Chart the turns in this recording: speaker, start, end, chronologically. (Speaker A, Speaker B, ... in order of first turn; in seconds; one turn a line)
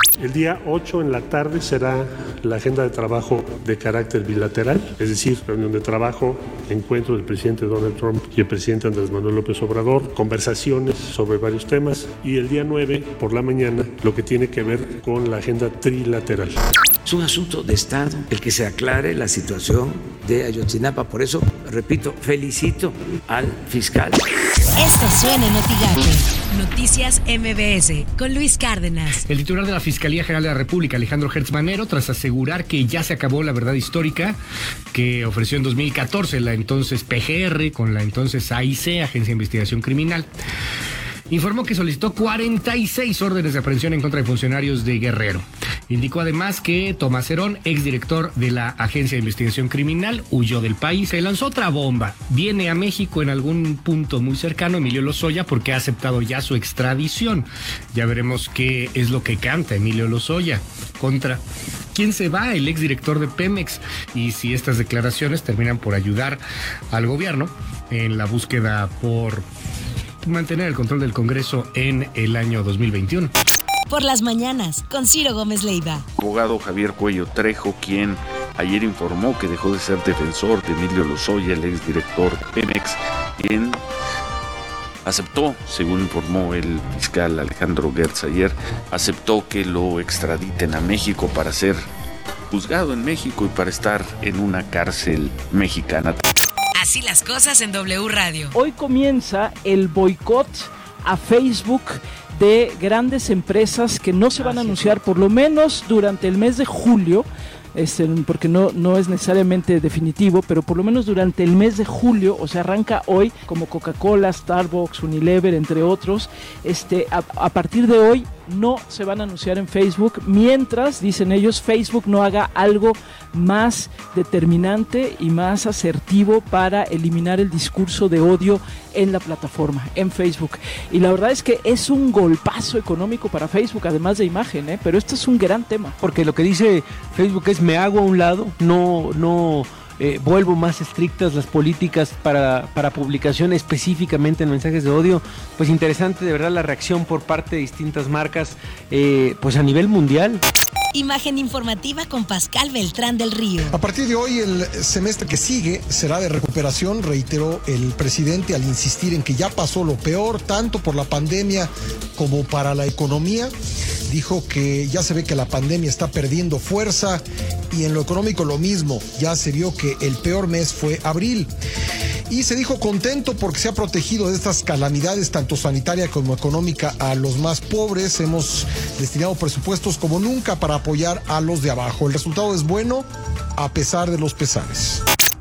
Speaker A: 0.2-16.6
Speaker B: 17.1-24.2
Speaker C: 24.8-29.2
Speaker D: 29.3-34.4
Speaker D: 34.9-40.3
Speaker D: 41.3-61.4
Speaker D: 61.9-69.5
Speaker D: 70.2-73.3
Speaker C: 73.9-76.0
Speaker E: 76.2-83.8
Speaker E: 85.0-91.8
Speaker E: 92.5-96.2
Speaker C: 96.8-98.5
Speaker F: 98.5-136.0
Speaker B: 104.4-104.9
Speaker G: 136.0-150.4
Speaker C: 150.9-153.7
Speaker H: 153.6-163.5
Speaker H: 164.1-171.5
Speaker H: 172.3-183.1
Speaker H: 183.6-185.0